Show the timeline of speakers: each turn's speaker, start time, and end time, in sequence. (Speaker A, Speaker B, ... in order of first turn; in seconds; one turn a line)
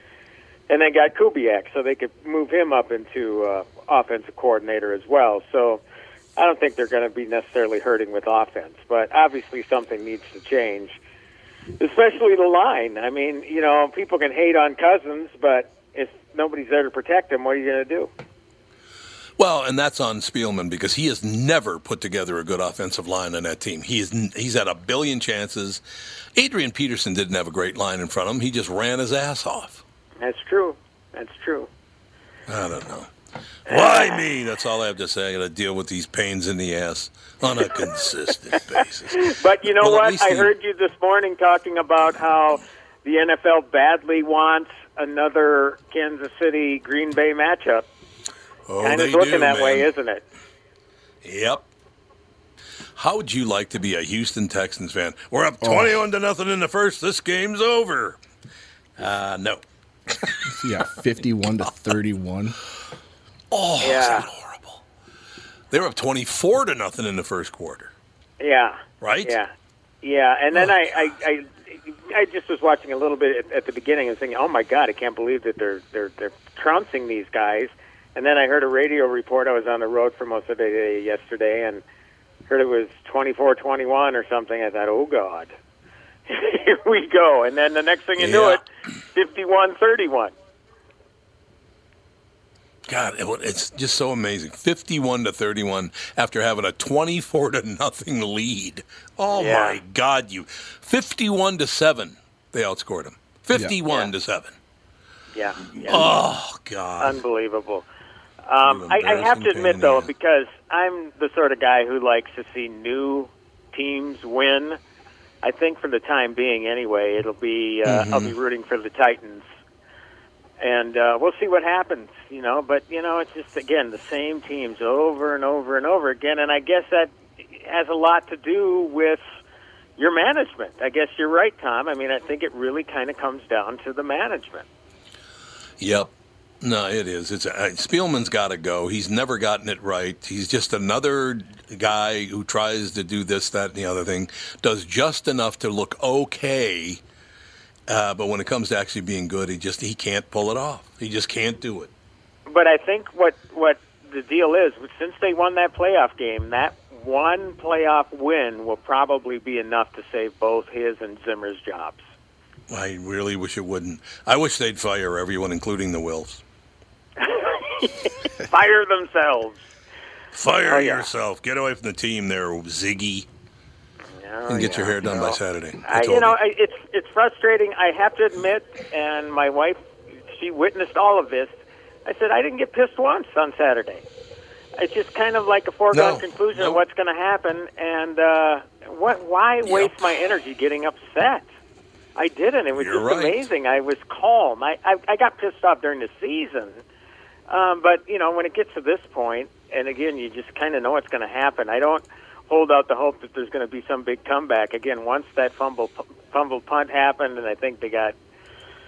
Speaker A: 0.7-5.8
Speaker A: 6.4-11.0
Speaker A: 11.8-18.1
Speaker B: 19.4-25.8
Speaker B: 26.3-29.8
Speaker A: 30.2-31.7
Speaker B: 32.5-33.1
Speaker B: 33.7-40.5
Speaker A: 33.7-34.2
Speaker A: 39.2-47.9
Speaker B: 48.7-49.9
Speaker A: 48.8-50.2
Speaker B: 51.2-51.7
Speaker B: 53.0-58.2
Speaker C: 55.6-56.0
Speaker B: 59.0-59.6
Speaker B: 60.2-60.5
Speaker C: 60.5-62.6
Speaker B: 63.5-64.8
Speaker A: 63.8-64.2
Speaker B: 65.7-67.9
Speaker A: 68.4-69.5
Speaker B: 69.0-69.3
Speaker A: 70.0-81.8
Speaker A: 82.5-85.5
Speaker A: 86.3-88.6
Speaker B: 88.2-88.6
Speaker A: 89.1-90.3
Speaker B: 92.9-104.5
Speaker A: 99.3-99.8
Speaker A: 105.3-106.1
Speaker B: 105.8-107.2
Speaker A: 107.0-107.8
Speaker A: 108.4-114.8
Speaker B: 108.6-110.1
Speaker A: 115.4-119.4
Speaker B: 117.8-118.3
Speaker A: 120.6-129.2
Speaker A: 130.0-134.7
Speaker B: 135.8-147.0
Speaker B: 147.9-151.9
Speaker A: 152.5-162.0
Speaker B: 162.7-166.4
Speaker A: 167.2-169.6
Speaker B: 170.3-173.3
Speaker A: 170.7-171.1
Speaker A: 174.2-179.8
Speaker B: 174.5-176.4
Speaker A: 180.3-184.0
Speaker A: 184.8-191.4
Speaker B: 185.9-186.8
Speaker B: 189.7-190.1
Speaker A: 192.2-196.8
Speaker B: 192.7-193.4
Speaker A: 197.5-208.1